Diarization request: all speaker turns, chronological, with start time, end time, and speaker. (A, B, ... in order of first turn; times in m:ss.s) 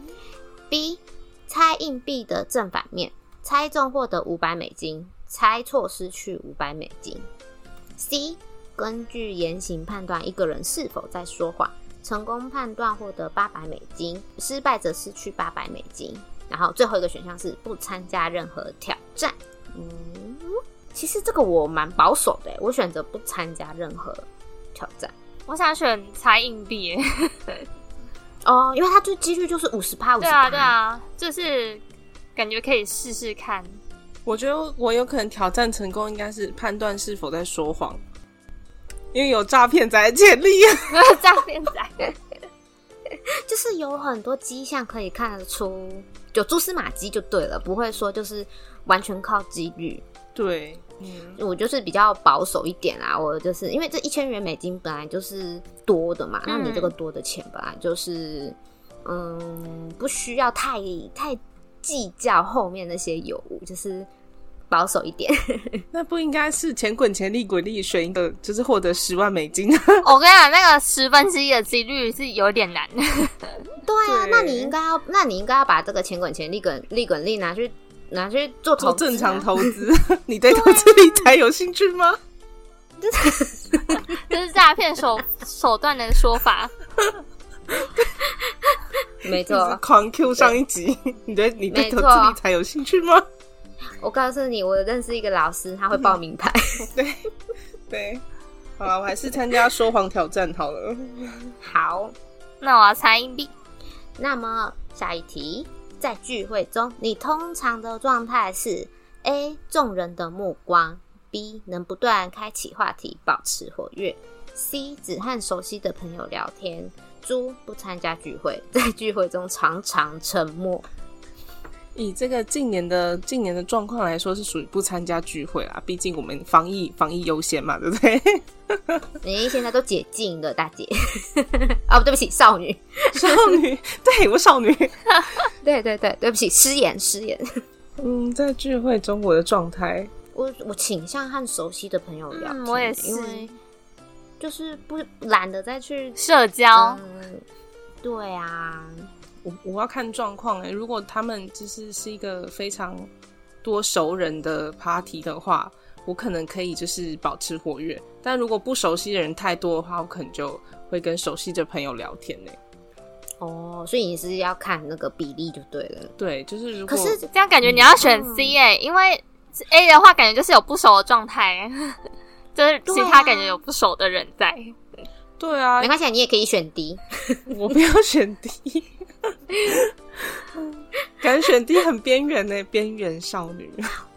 0:00.7-0:07.2 A
0:08.0-0:25.1 A
0:25.5-0:27.6 B
0:28.4-0:30.7 A
0:30.2-0:31.8 B
0:32.4-0:33.8 B
0:34.2-0:38.0 C
0:39.1-0:41.0 C
0:40.9-0:42.1 B
0:43.4-0:50.0 A
0:50.3-0:51.4 C
0:51.4-1:04.1 A
0:56.4-0:56.9 B
1:04.7-1:05.8 A
1:05.9-1:10.1 C
1:10.0-1:13.6 B
1:13.8-1:19.7 A
1:14.0-1:14.7 C
1:18.8-1:22.2 C
1:23.0-1:24.2 A
1:24.1-1:26.7 B
1:27.7-1:28.1 C
1:28.2-1:29.8 A
1:29.4-1:33.2 C
1:31.7-1:32.4 A
1:34.0-1:36.9 A
1:36.9-1:37.2 C
1:37.9-1:38.2 C
1:38.8-1:41.5 C
1:41.6-1:42.1 A
1:42.6-1:43.5 B
1:44.2-2:00.8 A
2:01.9-2:09.0 C
2:09.2-2:13.5 A
2:13.1-2:15.0 C
2:15.6-2:17.5 A
2:18.0-2:20.1 C
2:20.3-2:23.5 A
2:22.3-2:23.5 B
2:24.4-2:26.2 A
2:26.2-2:27.0 B
2:26.7-2:27.4 A
2:28.0-2:29.1 A
2:29.4-2:33.1 C
2:33.6-2:42.6 C
2:43.4-2:46.1 A
2:46.2-2:47.2 C
2:46.9-2:48.5 A
2:47.3-2:52.0 B
2:52.5-2:54.7 B
2:52.9-2:53.6 A
2:55.4-2:55.9 C
2:55.8-2:57.5 A
2:57.5-3:00.4 C
3:01.2-3:03.9 C